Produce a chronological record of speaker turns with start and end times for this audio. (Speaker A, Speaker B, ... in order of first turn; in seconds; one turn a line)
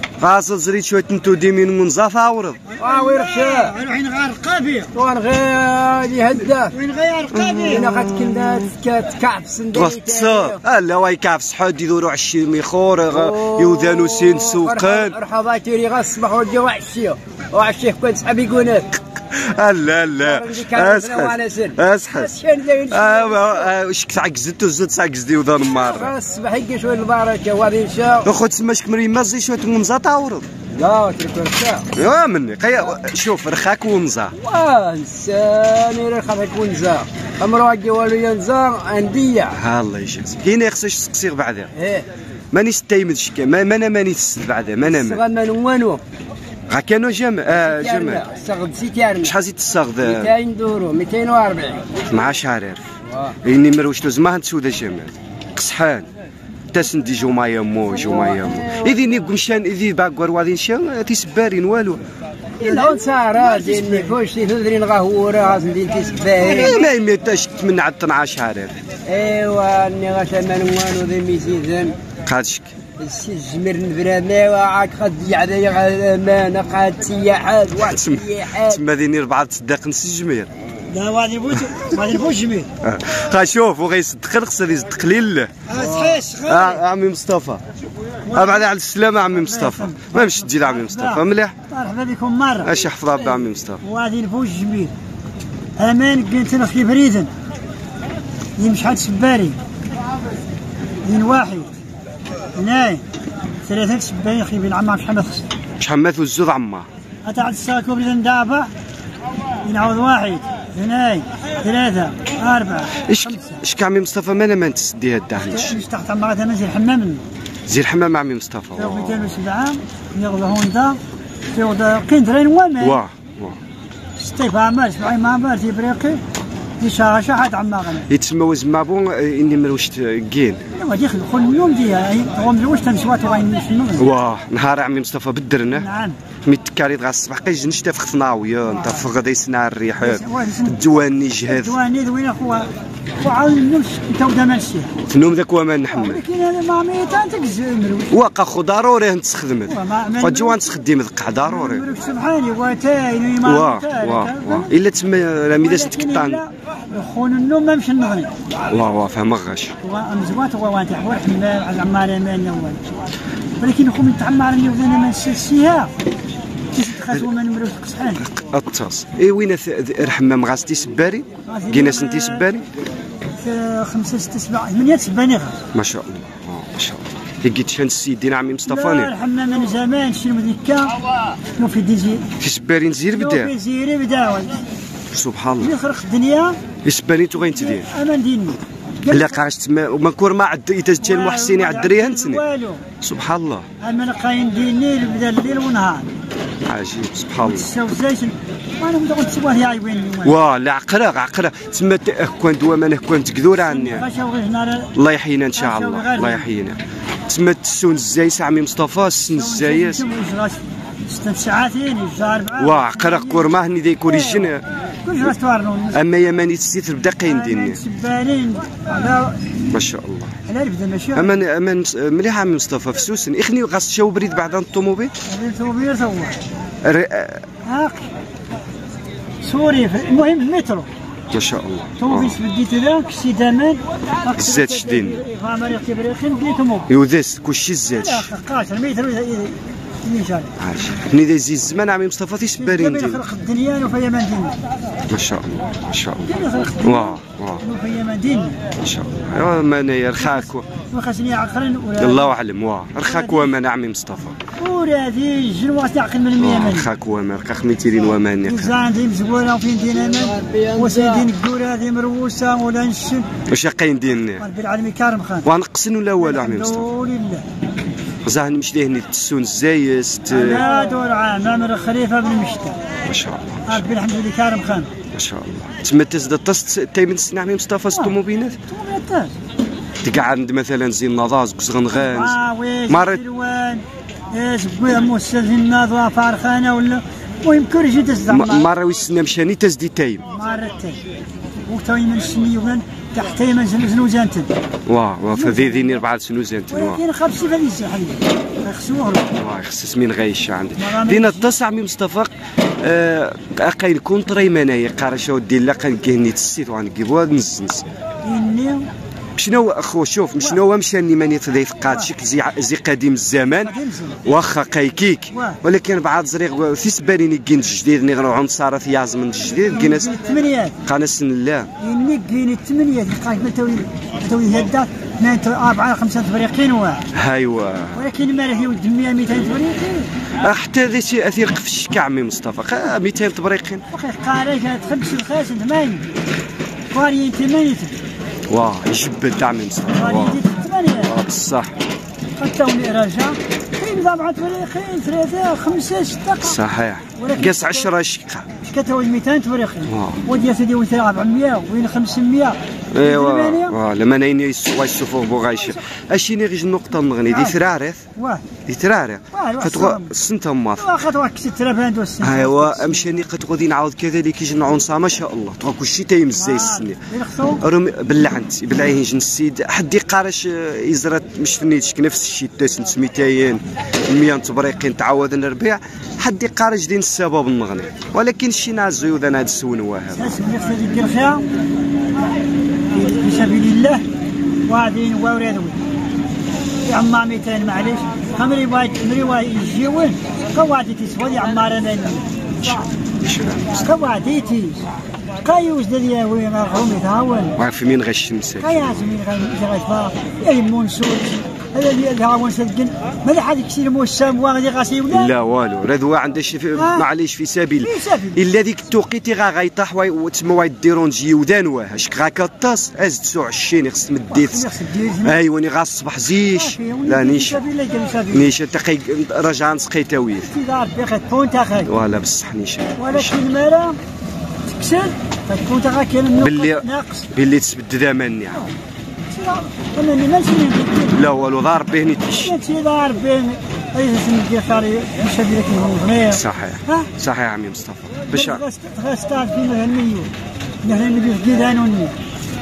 Speaker A: 0.2-2.6
Speaker B: 2.8-3.8
Speaker C: 2.8-4.9
Speaker B: 4.9-6.8
Speaker C: 6.7-8.1
Speaker A: 7.3-8.7
Speaker B: 7.6-10.6
Speaker A: 9.7-15.2
Speaker B: 13.1-18.9
Speaker A: 19.2-22.4
Speaker B: 20.2-23.7
Speaker A: 22.9-26.1
Speaker B: 25.7-28.3
Speaker A: 28.2-30.5
Speaker B: 30.7-31.9
Speaker A: 31.9-34.4
Speaker B: 34.3-39.6
Speaker A: 39.5-41.7
Speaker B: 41.8-42.1
Speaker A: 42.5-45.2
Speaker B: 44.8-46.0
Speaker A: 46.7-48.3
Speaker B: 47.5-49.4
Speaker A: 49.2-50.3
Speaker B: 50.0-52.0
Speaker A: 52.1-52.8
Speaker B: 53.1-53.4
Speaker A: 53.4-56.1
Speaker A: 56.7-62.0
Speaker B: 57.9-59.0
Speaker B: 62.6-66.9
Speaker C: 62.6-64.2
Speaker A: 66.4-68.7
Speaker B: 69.1-72.0
Speaker A: 72.3-72.7
Speaker B: 73.0-78.8
Speaker A: 77.8-80.5
Speaker C: 80.9-82.7
Speaker A: 82.8-85.6
Speaker C: 85.7-86.8
Speaker B: 85.8-86.2
Speaker A: 86.5-87.6
Speaker C: 88.2-88.7
Speaker A: 88.3-91.6
Speaker C: 89.3-92.7
Speaker A: 92.6-93.8
Speaker C: 93.8-94.9
Speaker C: 95.8-97.3
Speaker C: 98.6-99.6
Speaker C: 101.0-101.8
Speaker C: 102.6-103.0
Speaker C: 103.7-105.5
Speaker A: 105.8-106.9
Speaker C: 107.3-108.7
Speaker C: 109.6-113.6
Speaker A: 113.1-115.8
Speaker C: 115.4-117.2
Speaker A: 117.7-119.3
Speaker C: 118.8-121.0
Speaker C: 121.5-123.0
Speaker A: 122.8-123.6
Speaker C: 124.2-126.2
Speaker C: 126.8-128.1
Speaker A: 128.1-130.7
Speaker C: 130.7-134.1
Speaker A: 134.0-135.9
Speaker C: 135.7-136.2
Speaker A: 136.4-141.8
Speaker C: 138.7-139.0
Speaker C: 140.0-140.8
Speaker C: 141.4-144.9
Speaker A: 145.1-146.2
Speaker C: 145.9-148.1
Speaker A: 148.1-151.9
Speaker C: 149.7-150.7
Speaker C: 151.4-154.7
Speaker A: 153.4-156.4
Speaker C: 155.6-158.3
Speaker A: 158.7-159.8
Speaker C: 159.8-162.8
Speaker C: 163.6-165.9
Speaker C: 166.7-168.2
Speaker A: 168.2-172.7
Speaker C: 171.5-172.5
Speaker C: 173.4-175.6
Speaker A: 175.7-179.1
Speaker C: 178.7-180.9
Speaker C: 181.6-182.3
Speaker A: 182.4-183.5
Speaker C: 183.1-184.6
Speaker A: 185.1-185.7
Speaker C: 185.6-186.6
Speaker A: 186.8-187.9
Speaker C: 187.3-189.4
Speaker A: 189.1-192.4
Speaker C: 191.0-192.8
Speaker A: 193.0-193.7
Speaker C: 193.8-196.1
Speaker A: 196.7-197.7
Speaker C: 197.4-200.4
Speaker A: 200.2-204.1
Speaker C: 203.5-204.9
Speaker A: 204.9-210.1
Speaker C: 205.6-206.5
Speaker C: 209.2-213.5
Speaker A: 212.6-214.6
Speaker C: 214.1-214.5
Speaker C: 215.1-216.0
Speaker A: 215.9-217.8
Speaker C: 217.3-219.4
Speaker A: 219.7-220.3
Speaker C: 220.5-221.4
Speaker A: 221.2-225.1
Speaker C: 225.3-226.4
Speaker A: 226.8-227.4
Speaker C: 227.7-228.1
Speaker C: 229.4-230.9
Speaker A: 231.3-232.4
Speaker C: 232.0-236.9
Speaker A: 234.3-235.2
Speaker A: 236.9-238.3
Speaker C: 238.0-240.5
Speaker A: 240.6-243.2
Speaker C: 242.6-244.6
Speaker A: 245.1-247.6
Speaker C: 246.3-248.6
Speaker A: 248.8-250.7
Speaker C: 250.2-252.4
Speaker A: 252.0-254.4
Speaker C: 253.0-253.5
Speaker C: 254.6-256.9
Speaker A: 256.4-258.8
Speaker C: 258.4-263.3
Speaker B: 259.9-261.3
Speaker A: 263.5-264.5
Speaker C: 264.4-265.5
Speaker A: 265.4-266.9
Speaker C: 266.2-267.4
Speaker A: 268.2-270.7
Speaker C: 270.3-272.8
Speaker A: 273.1-273.9
Speaker C: 273.7-274.9
Speaker A: 275.1-278.6
Speaker C: 278.7-279.4
Speaker A: 280.0-283.2
Speaker C: 281.9-288.7
Speaker A: 288.3-290.3
Speaker C: 290.3-291.0
Speaker C: 291.7-294.5
Speaker A: 294.9-297.0
Speaker C: 295.4-296.0
Speaker C: 296.7-299.3
Speaker A: 299.4-302.3
Speaker C: 300.8-301.5
Speaker A: 302.8-307.9
Speaker C: 308.2-308.9
Speaker A: 309.4-320.2
Speaker C: 313.6-314.2
Speaker C: 315.3-315.6
Speaker C: 319.7-320.8
Speaker A: 320.9-321.7
Speaker C: 321.8-327.0
Speaker A: 327.1-328.1
Speaker C: 327.9-330.1
Speaker A: 330.4-333.8
Speaker C: 333.9-336.0
Speaker C: 336.9-338.0
Speaker A: 338.5-340.4
Speaker C: 339.9-341.1
Speaker A: 341.0-341.7
Speaker C: 342.4-346.6
Speaker A: 346.4-348.5
Speaker C: 347.2-347.9
Speaker C: 348.6-353.8
Speaker A: 349.9-350.2
Speaker A: 352.9-358.0
Speaker C: 357.3-357.6
Speaker C: 358.2-358.4
Speaker A: 358.7-360.9
Speaker C: 359.3-360.1
Speaker C: 360.8-363.2
Speaker A: 362.2-367.0
Speaker C: 366.4-367.6
Speaker A: 367.6-380.4
Speaker C: 380.1-381.4
Speaker C: 382.9-384.0
Speaker C: 384.7-385.8
Speaker C: 386.9-392.8
Speaker A: 392.6-394.0
Speaker C: 393.7-394.9
Speaker C: 395.4-397.6
Speaker A: 397.6-399.2
Speaker C: 398.6-405.3
Speaker A: 405.1-414.7
Speaker C: 406.8-407.1
Speaker C: 407.8-408.4
Speaker C: 414.3-415.4
Speaker A: 415.2-417.6
Speaker C: 416.5-418.5
Speaker A: 418.3-420.5
Speaker C: 420.4-421.9
Speaker A: 421.9-423.4
Speaker C: 423.0-424.0
Speaker C: 424.7-427.3
Speaker A: 426.4-428.6
Speaker C: 429.3-431.2
Speaker A: 431.1-432.6
Speaker C: 432.3-437.1
Speaker A: 436.2-438.6
Speaker C: 438.3-440.3
Speaker C: 440.8-442.2